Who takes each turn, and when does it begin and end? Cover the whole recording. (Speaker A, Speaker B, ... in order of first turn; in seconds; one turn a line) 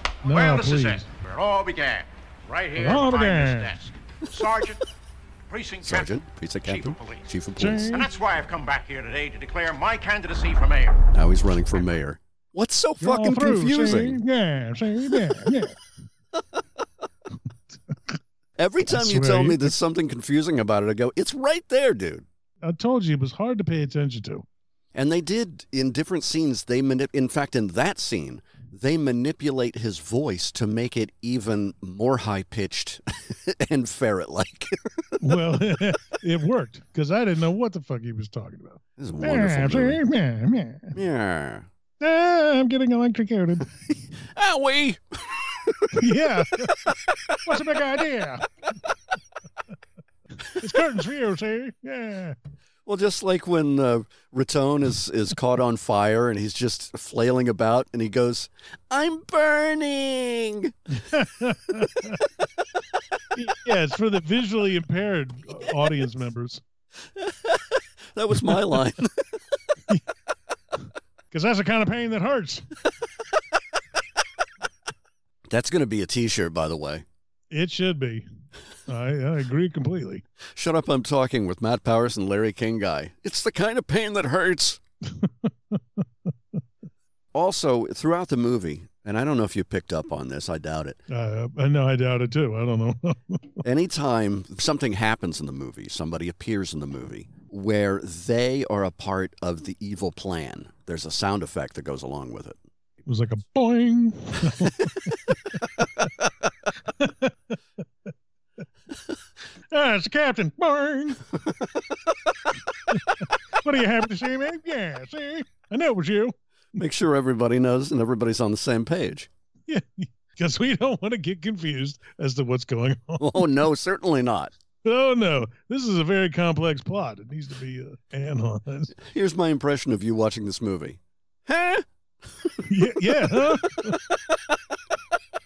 Speaker A: 0.2-1.1
Speaker B: 0.3-4.8
Speaker A: 2.8-3.8
Speaker B: 5.5-7.3
Speaker C: 5.8-7.9
Speaker A: 7.6-8.1
Speaker B: 7.9-11.0
Speaker C: 11.1-14.2
Speaker A: 13.0-15.8
Speaker A: 17.9-18.1
Speaker C: 18.6-22.2
Speaker A: 18.9-19.7
Speaker A: 22.6-24.4
Speaker C: 24.9-35.2
Speaker A: 35.2-41.0
Speaker C: 39.0-40.0
Speaker C: 40.9-41.7
Speaker A: 42.0-43.7
Speaker C: 44.1-45.9
Speaker A: 45.9-46.9
Speaker A: 47.4-48.4
Speaker A: 50.4-52.4
Speaker C: 52.9-60.7
Speaker A: 60.9-62.2
Speaker A: 63.3-66.6
Speaker C: 67.2-69.3
Speaker A: 71.3-72.7
Speaker C: 75.5-77.0
Speaker A: 77.5-78.2
Speaker A: 78.9-80.2
Speaker C: 80.5-84.8
Speaker A: 85.1-86.0
Speaker C: 87.3-91.0
Speaker A: 91.1-93.6
Speaker C: 93.6-102.6
Speaker A: 103.0-105.5
Speaker A: 106.8-107.5
Speaker A: 109.7-111.2
Speaker A: 113.6-116.3
Speaker C: 116.8-119.3
Speaker A: 119.7-123.4
Speaker C: 123.2-124.5
Speaker A: 124.8-128.9
Speaker C: 129.0-132.6
Speaker A: 132.6-133.9
Speaker C: 133.4-133.9